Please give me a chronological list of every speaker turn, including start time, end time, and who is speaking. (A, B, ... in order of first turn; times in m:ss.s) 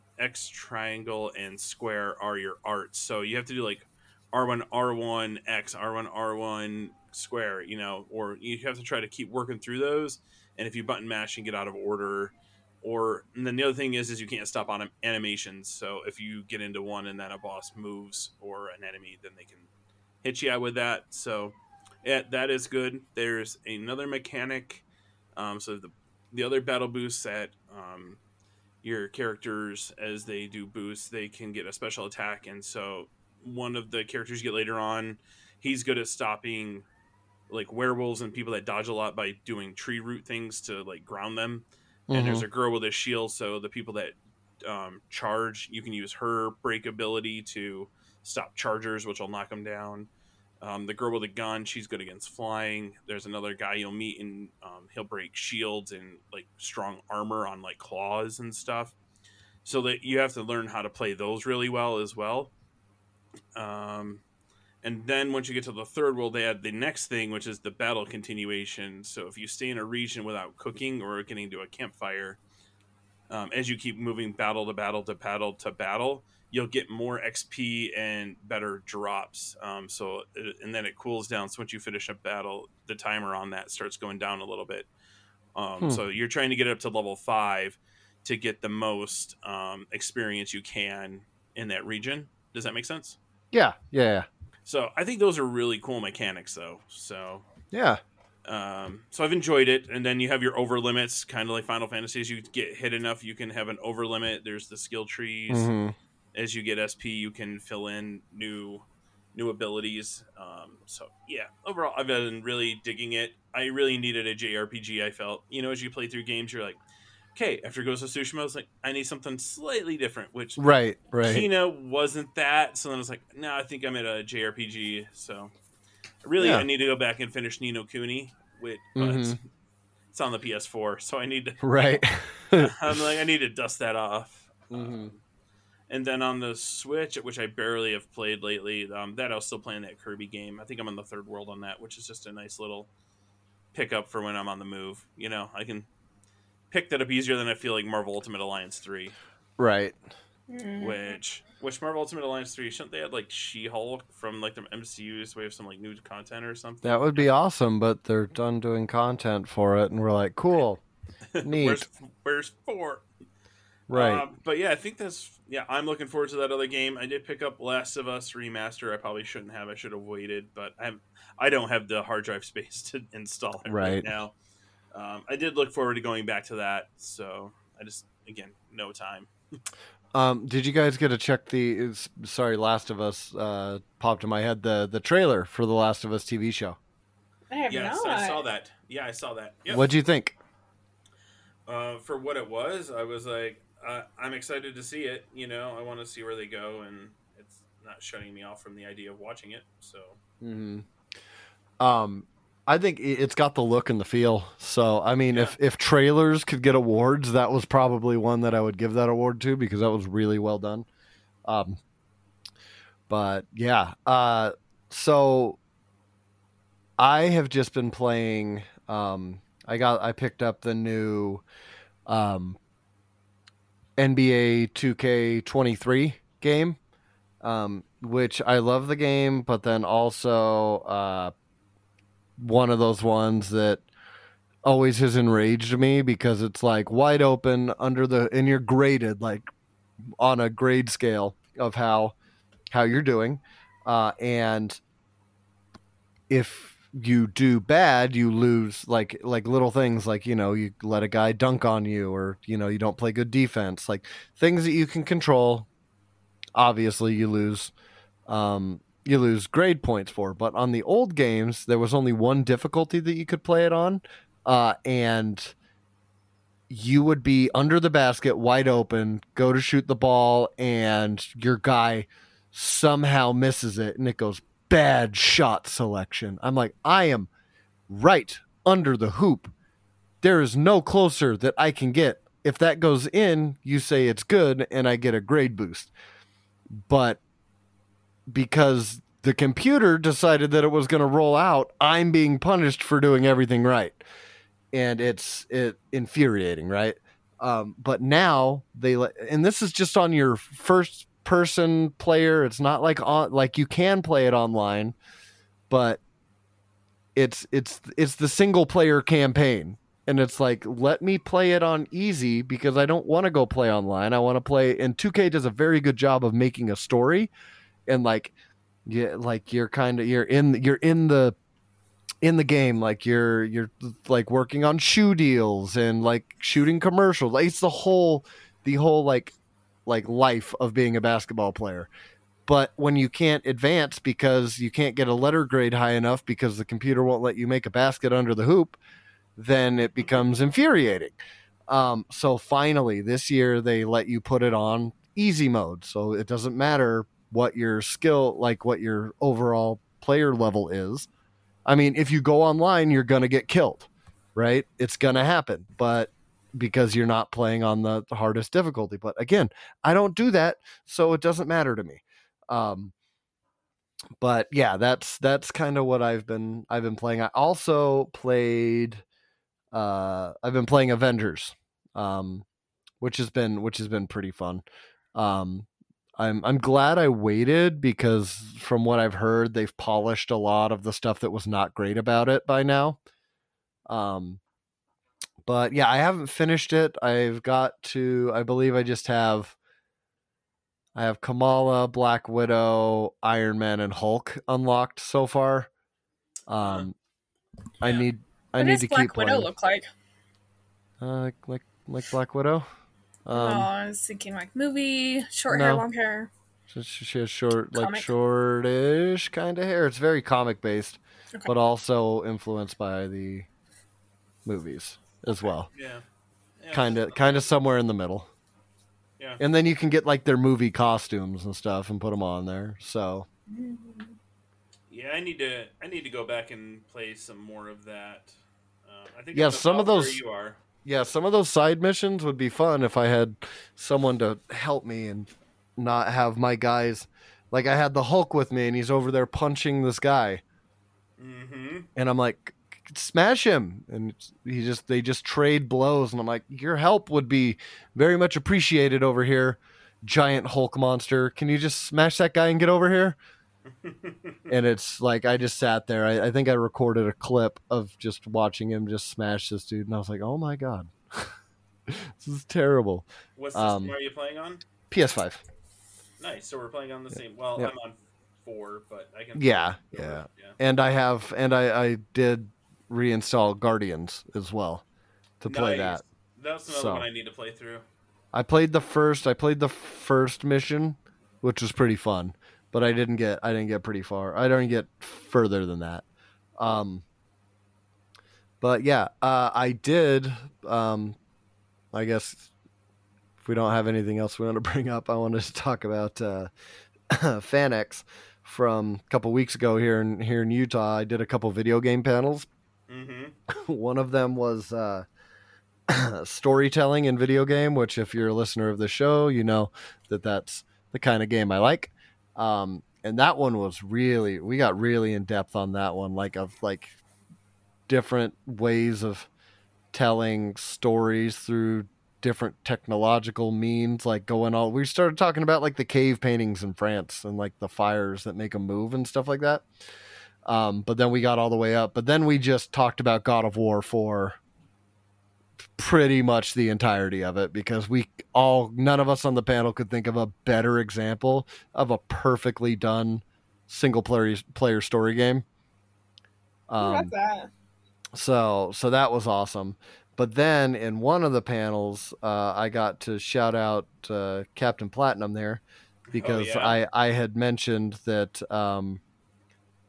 0:00.2-0:19.7 A
0:20.2-0:24.8 A
0:25.4-0:28.2 A
0:28.8-0:36.8 A
0:37.5-0:50.1 A
0:42.1-0:42.4 B
0:50.6-0:58.9 A
0:59.6-1:02.5 A
1:03.5-1:04.2 A
1:04.8-1:12.4 A
1:13.3-1:24.9 A
1:25.5-1:33.2 A
1:33.5-1:34.3 B
1:34.6-1:37.4 A
1:37.7-1:38.0 B
1:38.4-1:45.7 A
1:45.5-1:46.0 B
1:46.3-1:56.8 A
1:57.4-2:00.6 A
2:00.6-2:01.4 B
2:01.2-2:05.5 A
2:06.2-2:09.4 A
2:06.4-2:06.7 B
2:09.0-2:09.4 B
2:10.1-2:12.0 A
2:11.6-2:13.0 B
2:12.5-2:15.2 A
2:14.7-2:15.1 B
2:15.9-2:22.9 A
2:23.7-2:25.9 A
2:26.7-2:29.1 A
2:29.6-2:30.0 B
2:30.5-2:31.1 C
2:30.8-2:37.3 A
2:36.8-2:40.8 B
2:41.3-2:43.0 A
2:41.4-2:41.8 B
2:43.9-2:44.2 B
2:43.9-2:54.3 A
2:53.6-2:54.0 B
2:54.9-2:59.3 A
3:00.1-3:06.8 B
3:07.5-3:08.4 C
3:07.7-3:09.9 A
3:09.7-3:10.4 B
3:11.7-3:20.2 A
3:20.4-3:20.8 B
3:21.8-3:30.9 B
3:25.3-3:25.6 A
3:31.4-3:31.8 B
3:33.1-3:35.6 B
3:37.0-3:41.4 B
3:42.1-3:42.6 B
3:44.0-3:46.8 B
3:47.4-3:51.3 B
3:52.4-3:53.8 B
3:54.6-3:59.4 B
4:00.2-4:02.1 B
4:02.7-4:04.8 B
4:06.3-4:15.7 B
4:16.6-4:17.7 B
4:18.3-4:25.5 B
4:26.7-4:37.3 B
4:37.9-4:39.5 B
4:40.2-4:45.9 B
4:46.8-4:47.2 B
4:48.3-4:54.0 B
4:54.7-5:04.9 B
5:05.7-5:06.0 B
5:07.1-5:17.3 B
5:17.9-5:18.3 B
5:18.9-5:21.4 B
5:22.2-5:29.3 B
5:29.8-5:31.9 B
5:32.5-5:38.8 B
5:39.4-5:41.2 B
5:41.7-5:51.1 B
5:51.6-6:02.9 B
6:04.2-6:09.0 B
6:09.7-6:12.4 B
6:13.0-6:14.6 B
6:15.1-6:23.0 B
6:23.9-6:24.4 B
6:25.4-6:29.6 B
6:30.9-6:35.7 B
6:36.5-6:36.9 B
6:36.6-6:36.9 A
6:37.8-6:39.5 B
6:37.8-6:38.1 A
6:38.6-6:39.9 C
6:41.0-6:42.6 B
6:43.2-6:43.7 B
6:43.3-6:46.3 C
6:45.5-6:45.8 B
6:46.7-6:53.5 B
6:47.7-6:48.1 C
6:54.4-6:55.7 B
6:55.7-6:56.0 A
6:56.6-6:57.5 A
6:56.7-6:58.3 B
6:59.4-7:03.3 B
7:03.5-7:04.2 C
7:04.9-7:08.3 A
7:08.8-7:10.6 A
7:09.3-7:10.2 B
7:10.8-7:20.4 B
7:21.2-7:21.9 A
7:22.0-7:33.2 B
7:33.8-7:34.4 A
7:34.5-7:41.3 B
7:41.9-7:43.9 B
7:43.4-7:44.6 A
7:44.9-7:45.4 B
7:46.2-7:50.6 A
7:49.4-7:54.8 B
7:55.4-7:56.0 B
7:55.4-7:57.8 A
7:56.7-7:57.1 B
7:58.3-8:06.0 B
8:06.6-8:07.0 B
8:08.6-8:11.2 B
8:11.9-8:12.5 B
8:13.4-8:16.5 B
8:17.1-8:22.5 B
8:22.9-8:23.3 A
8:23.5-8:25.0 B
8:25.9-8:36.9 B
8:37.9-8:39.3 B
8:39.9-8:49.7 B
8:50.4-8:54.4 B
8:55.8-9:05.4 B
9:06.7-9:07.1 B
9:06.8-9:07.5 C
9:08.1-9:15.6 B
9:16.1-9:16.8 A
9:16.1-9:19.0 B